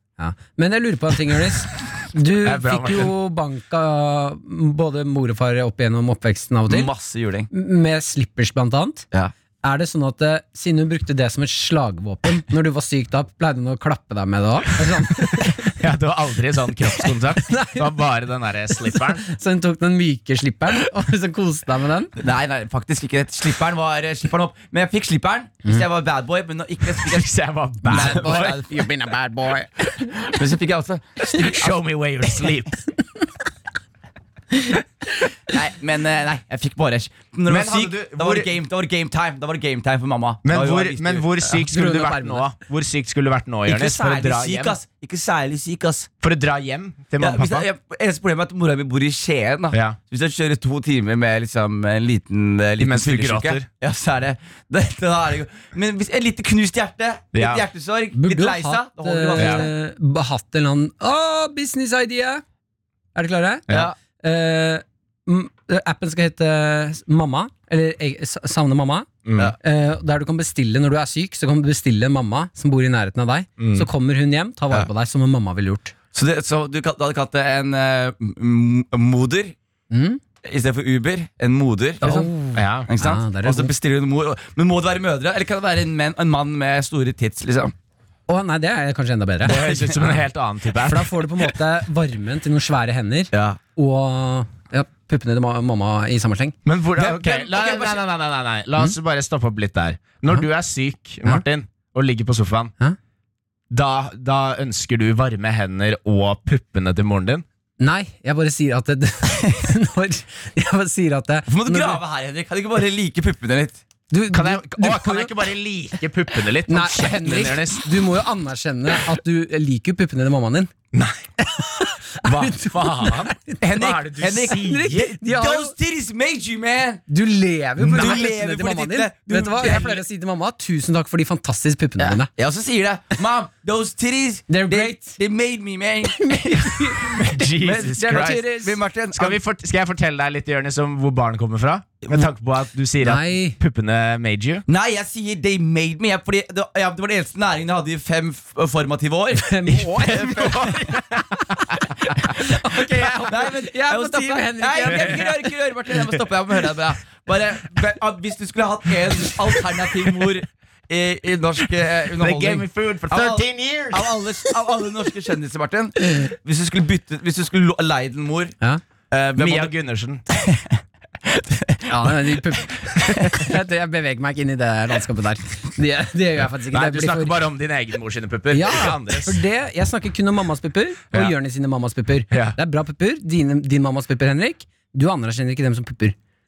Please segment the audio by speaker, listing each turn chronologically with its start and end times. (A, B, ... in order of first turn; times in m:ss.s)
0:00.2-0:06.9 A
0:02.4-0:03.1 B
0:06.7-0:07.5 C
0:07.5-0:09.1 A
0:09.6-0:15.8 A
0:15.4-0:19.3 B
0:17.5-0:18.0 A
0:18.9-0:22.1 A
0:22.2-0:27.3 C
0:27.0-0:28.6 B
0:27.8-0:28.8 C
0:27.8-0:30.2 A
0:30.2-0:31.7 C
0:31.3-0:32.8 B
0:35.5-0:41.4 C
0:37.5-0:38.5 B
0:40.4-0:44.8 B
0:41.5-0:42.5 A
0:43.7-0:46.1 C
0:46.2-0:47.7 B
0:47.2-0:59.7 C
0:49.7-0:50.0 B
0:52.8-0:53.7 B
0:57.3-0:57.6 B
0:58.1-1:02.4 A
0:59.4-0:59.7 B
1:03.2-1:03.7 A
1:03.7-1:04.0 C
1:04.2-1:09.1 A
1:09.2-1:09.5 B
1:09.6-1:15.9 A
1:13.6-1:13.9 B
1:16.1-1:19.6 C
1:19.9-1:20.2 A
1:20.4-1:22.3 C
1:22.0-1:23.7 A
1:22.1-1:22.9 B
1:22.9-1:27.7 C
1:28.3-1:29.8 A
1:29.4-1:31.4 B
1:29.6-1:30.2 C
1:30.8-1:36.6 A
1:33.3-1:33.6 C
1:36.7-1:42.7 B
1:36.7-1:38.0 C
1:43.7-1:47.4 B
1:47.8-1:52.0 A
1:51.5-1:53.8 C
1:54.1-1:55.3 A
1:54.3-1:58.1 B
1:56.7-2:00.7 A
2:00.9-2:01.6 B
2:01.6-2:03.6 A
2:02.2-2:04.9 B
2:03.6-2:07.0 C
2:04.3-2:05.7 A
2:07.1-2:12.3 A
2:07.8-2:10.0 C
2:07.8-2:08.2 B
2:12.0-2:19.4 C
2:14.5-2:15.2 A
2:16.1-2:18.8 A
2:17.2-2:18.4 B
2:19.2-2:24.6 B
2:23.0-2:23.6 A
2:24.7-2:31.0 C
2:29.4-2:35.4 A
2:30.1-2:31.2 B
2:32.4-2:48.6 C
2:34.9-2:35.2 B
2:42.2-2:44.1 B
2:49.1-2:49.7 C
2:49.4-2:50.2 B
2:50.3-2:53.4 C
2:51.9-2:57.4 A
2:56.7-2:59.4 B
2:58.5-3:06.2 A
3:02.3-3:02.6 B